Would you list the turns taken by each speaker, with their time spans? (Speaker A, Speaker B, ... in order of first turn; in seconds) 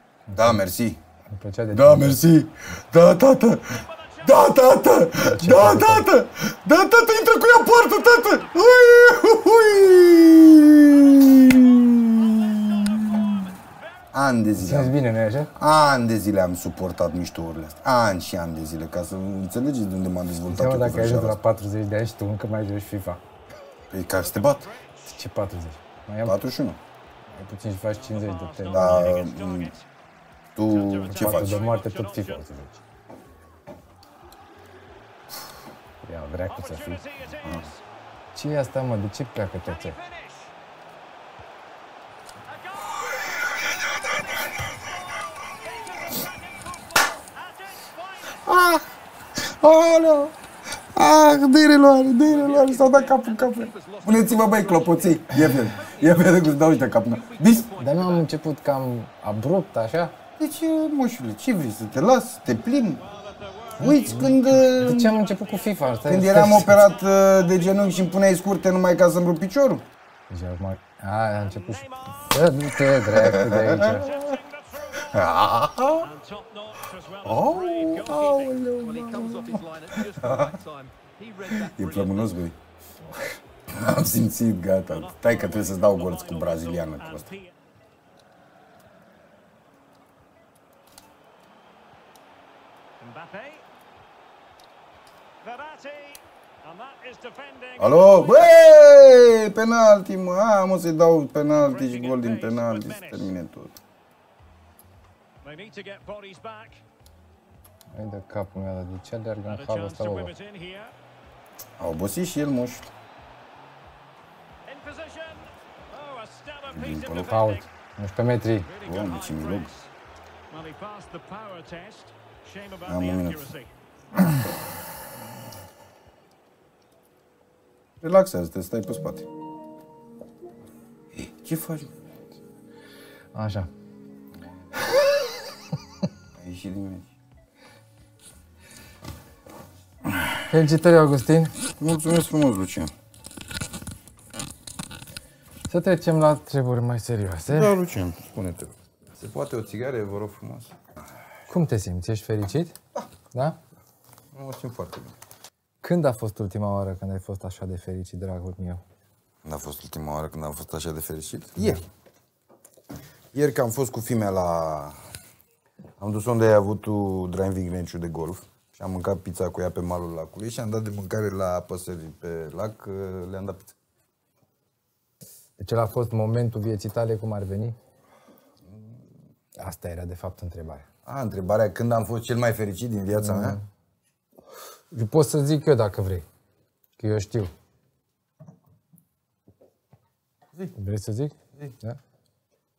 Speaker A: 0.3-0.6, 1.3-2.2, 5.2-6.1, 14.6-15.5, 20.5-23.2, 25.1-26.4, 27.3-29.1, 31.1-32.8, 36.0-37.0, 38.3-40.0, 57.8-60.1, 63.8-66.8, 70.3-74.1, 107.9-110.3, 117.2-118.7, 133.3-133.7, 140.5-141.5, 145.7-147.8, 151.5-152.7, 153.3-153.6, 155.8-158.8, 175.6-177.8, 179.6-180.9, 183.2-183.6, 184.9-186.2, 187.0-187.5, 190.7-192.0
Speaker B: 0.3-1.0, 1.7-13.4, 14.1-14.9, 15.5-21.4, 23.9-24.7, 26.2-26.8, 28.7-29.7, 30.6-31.6, 48.4-48.8, 49.4-50.3, 50.9-57.7, 60.4-63.0, 63.8-65.1, 66.1-69.8, 73.1-74.0, 75.0-76.1, 77.2-80.6, 81.5-82.5, 83.7-87.3, 97.8-103.8, 111.8-112.9, 116.7-117.3, 118.8-119.7, 122.8-123.5, 124.2-124.4, 128.0-129.3, 131.1-131.9, 136.4-137.1, 141.7-142.9, 147.5-150.7, 154.3-155.1, 159.4-161.8, 163.3-165.0, 166.0-173.8, 181.1-183.6
Speaker C: 3.7-4.4, 11.1-13.9, 24.2-25.1, 27.9-29.9, 30.7-32.4, 36.5-37.8, 39.6-40.5, 42.5-43.7, 45.5-48.5, 62.9-68.3, 71.4-75.4, 75.9-78.6, 84.8-87.5, 93.0-93.6, 95.4-98.3, 101.6-103.3, 105.4-106.8, 109.5-110.9, 114.7-117.7, 118.6-119.9, 120.5-123.7
Speaker D: 52.2-58.3, 78.8-82.4